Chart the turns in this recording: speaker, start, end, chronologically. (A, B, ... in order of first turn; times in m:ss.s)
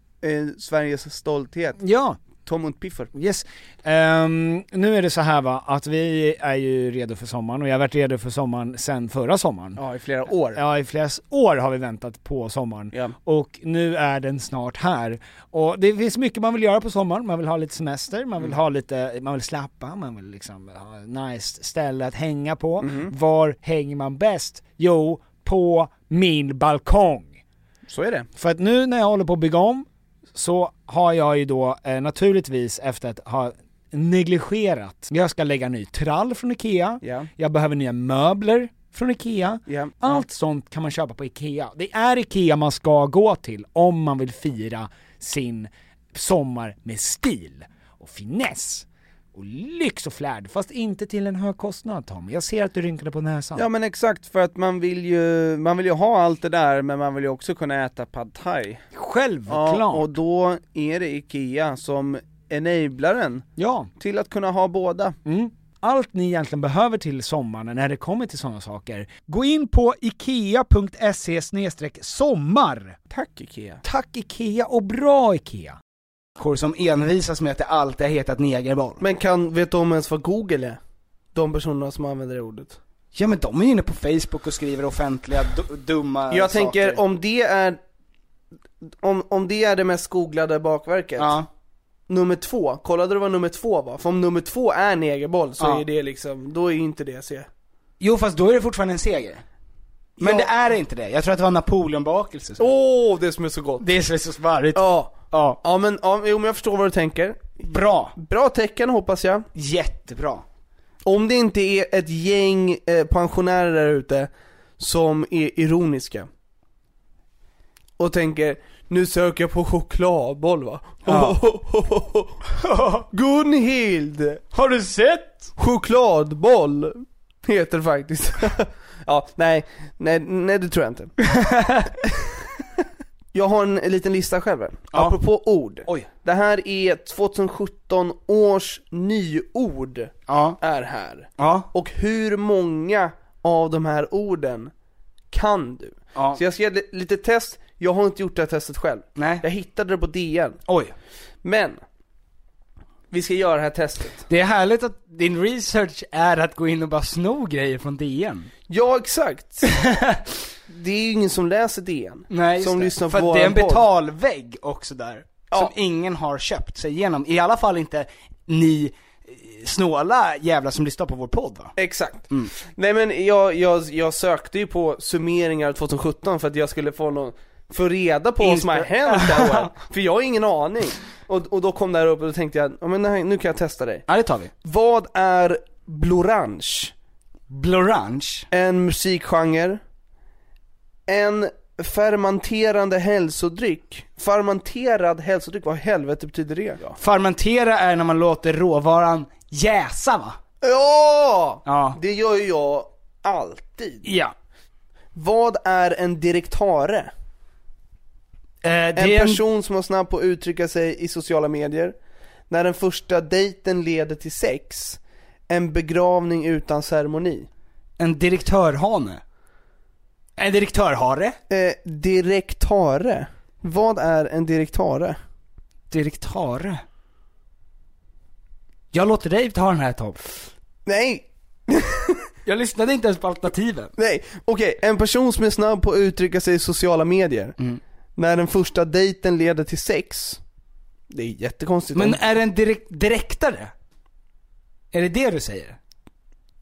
0:00.2-0:01.8 A
0:01.8-0:02.2 B
0:02.4-0:03.1 A
0:03.1-0:09.8 B
0:09.8-0:10.6 A
0:10.5-0:27.4 B
0:22.8-0:23.1 A
0:27.9-0:28.3 A
0:28.4-0:53.7 B
0:37.0-0:37.3 A
0:39.7-0:40.2 A
0:53.6-0:58.8 A
0:58.9-1:00.1 B
0:59.5-1:05.2 A
1:03.6-1:03.9 B
1:05.2-1:13.0 B
1:13.1-1:13.8 A
1:13.8-1:15.8 B
1:16.4-1:19.0 C
1:19.0-1:20.8 A
1:21.3-1:22.8 A
1:23.1-1:27.0 C
1:26.3-1:27.8 A
1:29.0-1:31.4 A
1:31.2-1:31.5 C
1:32.1-1:37.5 A
1:38.0-1:39.4 C
1:40.2-1:40.5 A
1:40.2-1:42.6 C
1:42.6-1:43.8 A
1:43.8-1:45.6 C
1:44.7-1:47.6 A
1:47.6-1:48.1 C
1:48.1-1:49.5 A
1:49.6-1:50.4 C
1:51.0-1:56.3 A
1:58.0-2:02.4 A
2:01.0-2:01.4 C
2:02.6-2:03.0 C
2:03.1-2:04.4 A
2:04.5-2:05.5 C
2:05.6-2:11.1 A
2:11.2-2:11.9 C
2:13.3-2:24.7 A
2:14.9-2:15.2 C
2:20.3-2:20.6 C
2:21.4-2:21.7 C
2:25.3-2:30.6 A
2:26.1-2:26.4 C
2:29.2-2:29.4 C
2:30.7-2:30.9 C
2:31.4-2:31.8 A
2:33.1-2:34.2 A
2:34.3-2:38.5 C
2:38.7-2:39.7 A
2:39.6-2:40.2 C
2:40.7-2:43.8 A
2:42.3-2:51.7 C
2:51.8-3:04.0 A
2:58.4-2:59.7 C
3:04.1-3:04.5 C
3:04.6-3:06.9 A
3:07.5-3:08.5 C
3:08.5-3:09.8 A
3:11.1-3:17.0 A
3:17.0-3:20.4 C
3:20.6-3:24.0 A
3:21.6-3:22.0 C
3:24.0-3:24.3 C
3:25.1-3:27.1 A
3:28.6-3:29.4 C
3:29.0-3:32.0 A
3:32.5-3:37.5 A
3:38.0-3:39.2 C
3:40.4-3:41.4 C
3:41.5-3:45.2 A
3:45.9-3:46.8 C
3:48.9-3:50.2 C
3:50.8-3:52.3 A
3:52.4-3:53.9 C
3:54.0-3:57.5 A
3:58.2-4:00.4 A
4:01.1-4:02.2 A
4:01.9-4:03.7 C
4:04.9-4:05.8 C